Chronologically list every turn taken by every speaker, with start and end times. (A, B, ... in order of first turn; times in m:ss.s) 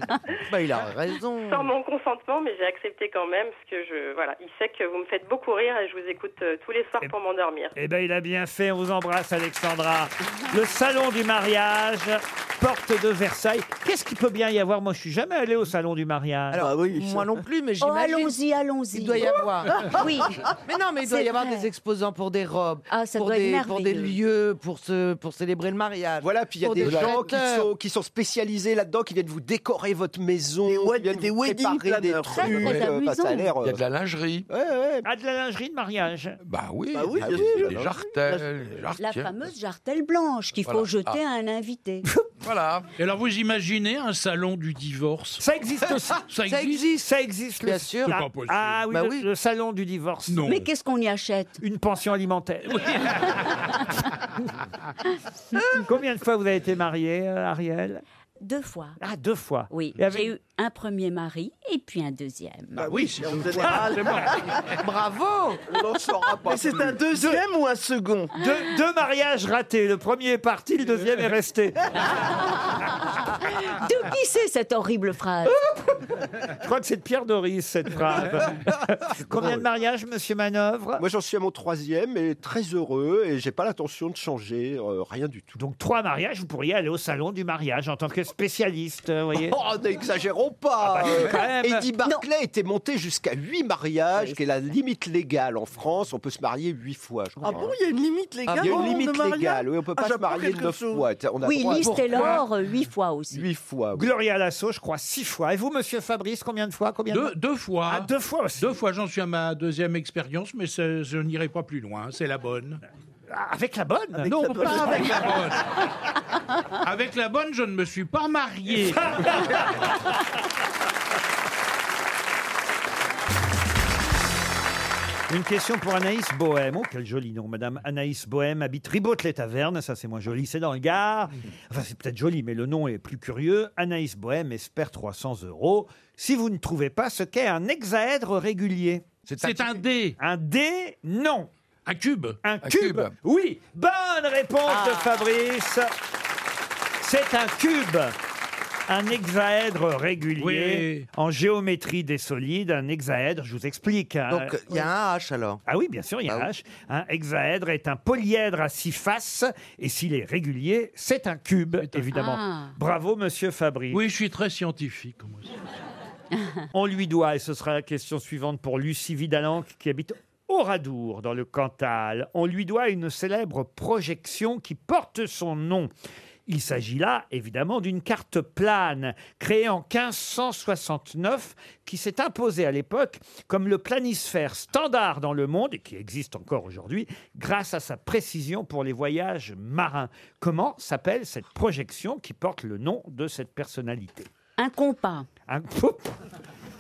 0:00.4-0:01.7 A
0:01.4-0:07.8 B
0:07.8-0:16.7 C
0:16.5-0:18.4 A
0:16.6-0:17.3 D
0:17.8-0:19.4 E
0:18.9-0:27.7 A
0:19.7-0:20.0 D
0:20.0-0:20.4 E
0:21.0-0:21.7 E
0:22.9-0:24.2 E
0:26.2-0:33.8 F
0:26.8-0:27.2 G
0:30.7-0:32.5 D
0:32.3-0:33.6 E
0:32.5-0:32.9 G
0:33.6-0:34.5 G
0:34.5-0:35.0 F
0:35.0-0:36.4 C
0:36.4-0:39.4 G
0:36.9-0:38.5 D
0:37.2-0:37.9 F
0:39.0-0:42.1 E
0:40.6-0:41.2 G
0:42.4-0:42.9 G
0:43.0-0:45.4 H
0:45.4-0:46.2 C
0:46.3-0:46.9 H
0:46.4-0:47.1 A
0:47.0-0:50.4 C
0:47.6-0:48.2 A
0:48.1-0:48.8 H
0:48.9-0:49.3 A
0:50.3-0:50.7 H
0:50.4-0:51.6 E
0:51.6-0:53.1 C
0:52.7-0:53.8 H
0:55.6-0:58.0 C
0:58.4-0:59.0 E
0:59.0-1:00.3 C
0:59.7-1:03.0 E
1:02.8-1:04.5 D
1:02.8-1:04.8 H
1:04.8-1:05.7 A
1:05.7-1:07.0 F
1:06.4-1:08.3 D
1:07.2-1:07.4 C
1:08.4-1:11.9 C
1:13.0-1:15.6 E
1:16.6-1:21.0 C
1:21.0-1:25.6 F
1:25.6-1:29.6 C
1:29.4-1:37.8 F
1:30.8-1:31.9 C
1:37.4-1:41.1 D
1:38.5-1:38.9 A
1:38.6-1:42.4 F
1:41.4-1:43.5 E
1:41.7-1:42.4 A
1:43.3-1:44.1 F
1:44.0-1:47.4 C
1:47.1-1:52.8 H
1:47.9-1:48.8 C
1:53.3-1:55.3 C
1:54.2-1:55.4 D
1:54.4-1:55.6 H
1:56.8-1:59.5 H
1:58.9-1:59.7 C
2:05.3-2:19.1 C
2:19.3-2:19.8 G
2:19.3-2:20.2 H
2:20.2-2:21.5 C
2:21.9-2:22.4 H
2:22.4-2:25.9 C
2:22.6-2:23.2 G
2:27.0-2:28.2 C
2:28.9-2:34.9 C
2:30.4-2:31.1 H
2:34.3-2:35.6 A
2:35.7-2:44.0 C
2:42.1-2:42.8 E
2:43.9-2:45.6 H
2:46.7-2:55.9 C
2:56.5-3:14.3 C
3:14.6-3:15.3 E
3:15.5-3:16.2 C